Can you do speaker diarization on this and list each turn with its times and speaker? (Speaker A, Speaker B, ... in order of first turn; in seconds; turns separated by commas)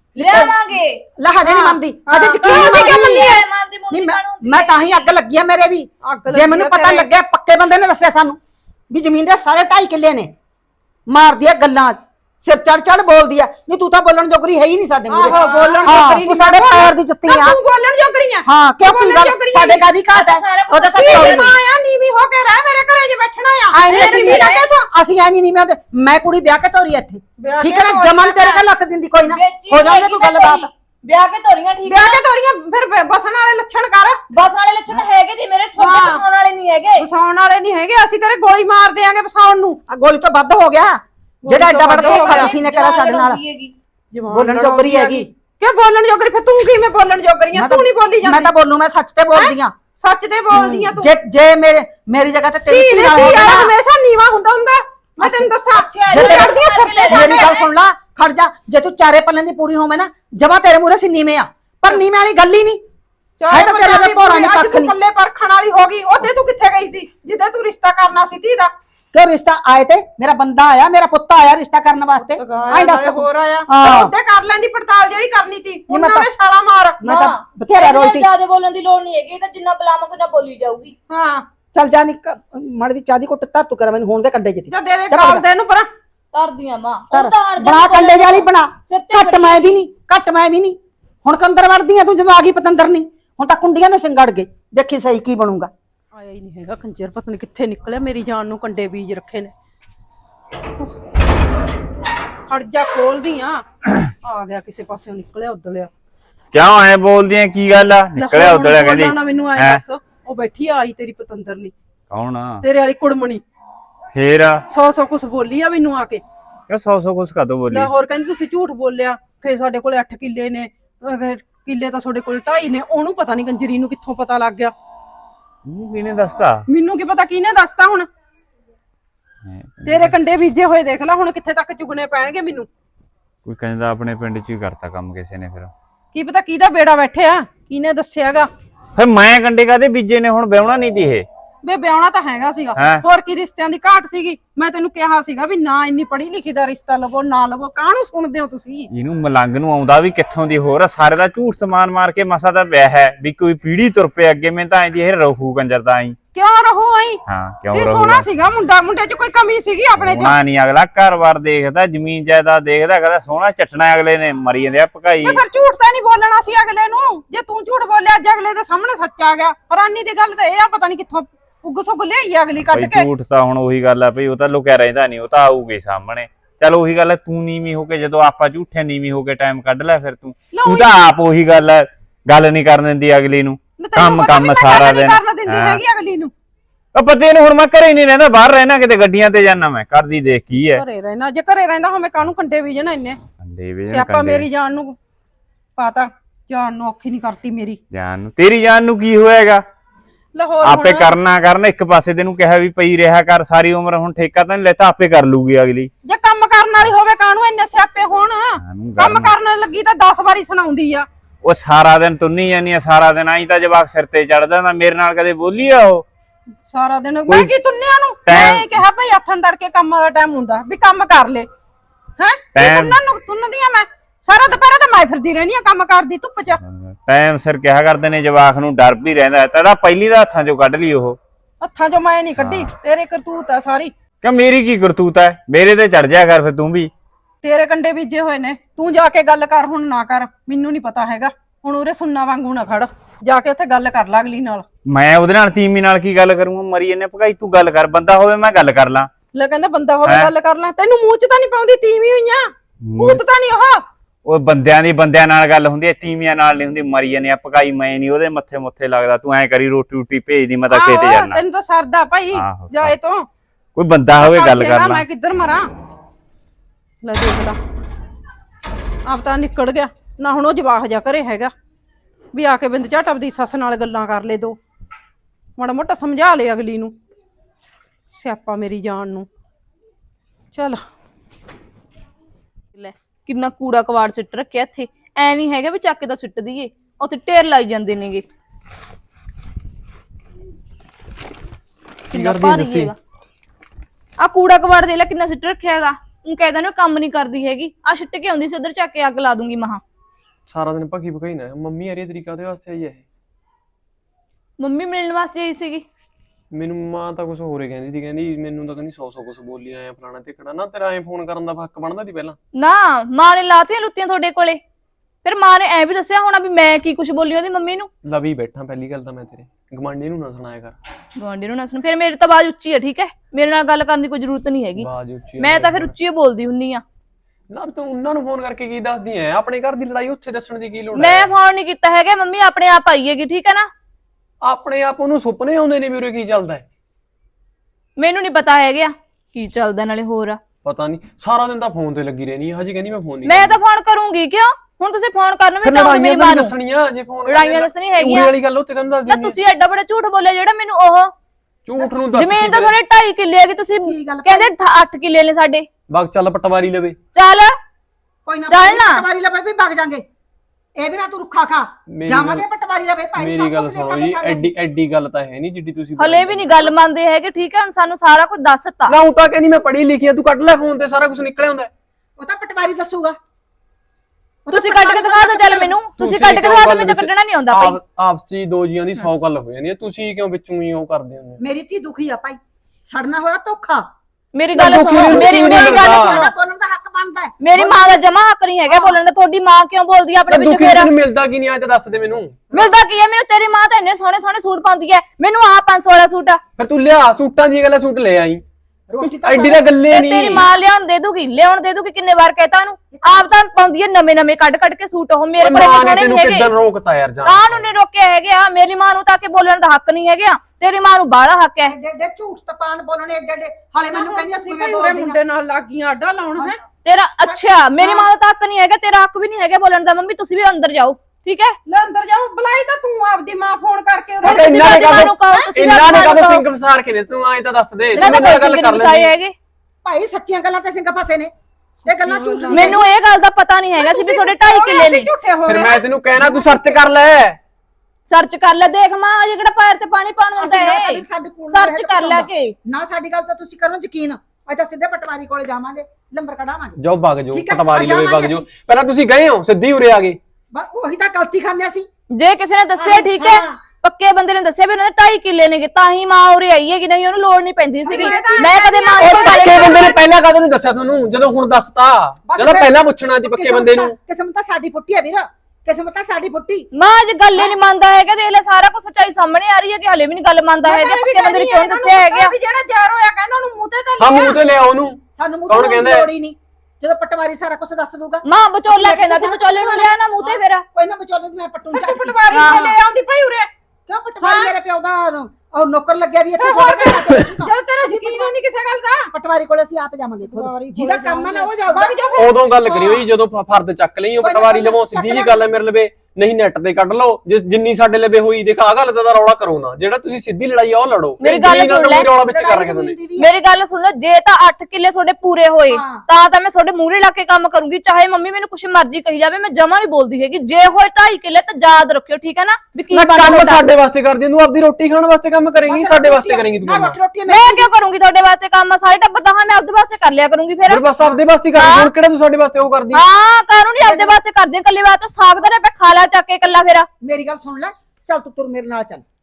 Speaker A: 0.2-1.0, Speaker B: 0.2-0.5, Speaker B: 1.2-3.3, Speaker C: 1.4-1.8, Speaker A: 2.1-4.8, Speaker C: 2.4-3.4, Speaker B: 3.9-8.4, Speaker C: 6.0-7.1, Speaker B: 8.9-10.3, Speaker B: 11.1-17.6, Speaker C: 15.1-19.8, Speaker A: 15.2-16.1, Speaker B: 18.5-21.5, Speaker A: 20.1-21.5, Speaker C: 20.9-24.9, Speaker B: 23.7-30.7, Speaker A: 23.9-24.6, Speaker C: 27.4-28.6, Speaker A: 29.3-32.2, Speaker C: 31.9-34.2, Speaker A: 34.3-37.1, Speaker C: 35.8-36.2, Speaker C: 37.0-39.8, Speaker B: 39.9-43.4, Speaker C: 41.5-42.5, Speaker A: 42.0-43.7, Speaker C: 44.1-48.5, Speaker B: 44.3-45.3, Speaker B: 47.5-49.8, Speaker C: 49.3-51.1, Speaker B: 50.5-53.7, Speaker C: 52.7-57.5, Speaker B: 55.2-55.5, Speaker A: 55.7-57.6, Speaker B: 56.1-62.8, Speaker C: 63.4-68.7, Speaker B: 63.5-64.9, Speaker B: 69.1-74.1, Speaker C: 72.2-77.1, Speaker B: 75.9-76.3, Speaker B: 77.0-78.3, Speaker A: 77.1-81.0, Speaker C: 81.1-81.5, Speaker B: 81.7-85.4, Speaker C: 84.7-85.9, Speaker A: 86.3-89.8, Speaker B: 87.1-95.7, Speaker C: 96.2-99.5, Speaker C: 102.5-103.7, Speaker C: 104.2-105.9, Speaker D: 106.5-109.8, Speaker C: 108.2-111.7, Speaker D: 112.1-112.6, Speaker C: 112.6-113.4, Speaker D: 114.1-114.6, Speaker C: 114.7-116.2, Speaker D: 116.7-117.9, Speaker C: 117.7-124.7, Speaker D: 125.7-126.6, Speaker C: 126.7-128.1, Speaker D: 129.4-130.2, Speaker C: 129.9-132.7, Speaker D: 133.4-135.7, Speaker C: 136.1-138.5, Speaker D: 139.0-141.2, Speaker C: 141.6-148.9, Speaker D: 142.8-143.0, Speaker D: 148.9-156.2, Speaker C: 156.3-157.2, Speaker D: 157.3-158.2, Speaker C: 157.7-160.3, Speaker D: 160.0-165.4, Speaker C: 165.2-173.1, Speaker D: 172.7-185.8, Speaker C: 180.5-180.9, Speaker C: 183.8-186.3, Speaker D: 186.9-190.8, Speaker C: 190.8-193.2, Speaker D: 193.4-194.5, Speaker C: 193.9-195.0, Speaker C: 195.8-197.8, Speaker D: 197.9-199.6, Speaker C: 200.3-201.1, Speaker D: 200.6-205.9, Speaker C: 206.1-211.1, Speaker D: 208.6-209.3, Speaker D: 211.4-216.1, Speaker C: 216.7-221.5, Speaker D: 218.3-218.8, Speaker C: 222.2-226.6, Speaker D: 222.6-223.0, Speaker D: 226.7-231.2, Speaker C: 231.6-233.9, Speaker D: 232.4-232.7, Speaker D: 234.2-236.9, Speaker C: 237.4-244.7, Speaker D: 244.9-249.1, Speaker C: 249.3-253.8, Speaker D: 250.1-250.3, Speaker D: 252.8-253.2, Speaker D: 254.3-261.4, Speaker C: 260.7-263.3, Speaker D: 262.3-262.9, Speaker D: 263.8-265.0, Speaker C: 264.2-265.7, Speaker C: 267.0-267.6, Speaker C: 269.1-271.5, Speaker C: 272.3-274.6, Speaker C: 275.6-276.9, Speaker C: 278.1-279.3, Speaker C: 280.5-280.8, Speaker A: 282.8-288.2, Speaker A: 292.1-292.9, Speaker E: 292.1-292.9, Speaker A: 294.2-299.8, Speaker E: 300.5-303.0, Speaker A: 304.6-305.9, Speaker E: 306.5-312.4, Speaker A: 312.6-314.6, Speaker A: 315.2-317.9, Speaker E: 318.1-320.8, Speaker A: 321.2-324.9, Speaker E: 324.8-325.9, Speaker A: 325.4-326.8, Speaker E: 327.5-331.3, Speaker A: 330.9-333.7, Speaker E: 334.4-336.6, Speaker A: 338.0-340.4, Speaker E: 340.6-343.6, Speaker A: 343.2-346.5, Speaker E: 345.6-349.4, Speaker A: 347.3-348.3, Speaker A: 349.1-351.1, Speaker E: 351.6-352.8, Speaker A: 352.1-355.7, Speaker B: 353.8-354.5, Speaker E: 355.9-357.0, Speaker A: 357.1-357.6, Speaker B: 358.3-360.0, Speaker A: 358.5-359.1, Speaker B: 360.8-364.5, Speaker E: 361.9-362.4, Speaker E: 363.2-366.7, Speaker A: 366.0-369.0, Speaker E: 368.9-371.7, Speaker B: 372.2-373.2, Speaker B: 374.5-375.7, Speaker A: 374.5-377.8, Speaker E: 376.0-381.4, Speaker B: 381.4-383.9, Speaker A: 384.4-386.3, Speaker E: 384.6-386.2, Speaker B: 384.6-388.0, Speaker A: 387.4-390.9, Speaker B: 388.7-389.0, Speaker E: 390.3-392.4, Speaker A: 392.5-396.4, Speaker E: 396.6-398.4, Speaker B: 398.9-399.7, Speaker E: 399.2-400.4, Speaker A: 399.9-406.5, Speaker B: 402.9-403.4, Speaker E: 405.4-407.6, Speaker A: 407.2-411.8, Speaker B: 411.6-415.2, Speaker C: 413.9-416.6, Speaker A: 416.9-421.6, Speaker C: 417.8-418.1, Speaker C: 421.7-425.7, Speaker E: 424.2-429.1, Speaker A: 424.2-426.4, Speaker C: 427.9-428.4, Speaker A: 427.9-429.4, Speaker B: 429.9-431.3, Speaker B: 431.9-432.8, Speaker C: 431.9-432.8, Speaker A: 432.5-435.1, Speaker C: 433.8-436.8, Speaker E: 435.5-437.4, Speaker A: 438.1-442.6, Speaker B: 440.4-446.8, Speaker E: 446.8-450.2, Speaker B: 447.3-448.5, Speaker B: 450.5-451.9, Speaker A: 452.1-460.0, Speaker B: 452.8-453.6, Speaker C: 457.9-459.9, Speaker B: 457.9-458.5, Speaker E: 459.0-463.9, Speaker B: 462.3-466.7, Speaker A: 466.7-472.3, Speaker C: 470.6-474.4, Speaker E: 474.0-476.1, Speaker B: 475.2-482.8, Speaker A: 478.2-480.6, Speaker C: 481.7-483.5, Speaker A: 482.3-482.6, Speaker B: 483.9-488.4, Speaker C: 484.2-484.5, Speaker C: 486.4-489.1, Speaker B: 489.1-492.3, Speaker C: 490.3-493.0, Speaker E: 492.2-503.0, Speaker B: 494.2-495.4, Speaker A: 501.2-502.1, Speaker B: 501.2-503.3, Speaker A: 503.2-513.6, Speaker B: 505.7-506.0, Speaker E: 512.9-517.0, Speaker B: 515.7-517.7, Speaker A: 517.3-520.9, Speaker E: 520.7-523.0, Speaker A: 521.5-521.9, Speaker A: 522.9-526.9, Speaker B: 523.8-524.2, Speaker B: 527.0-529.0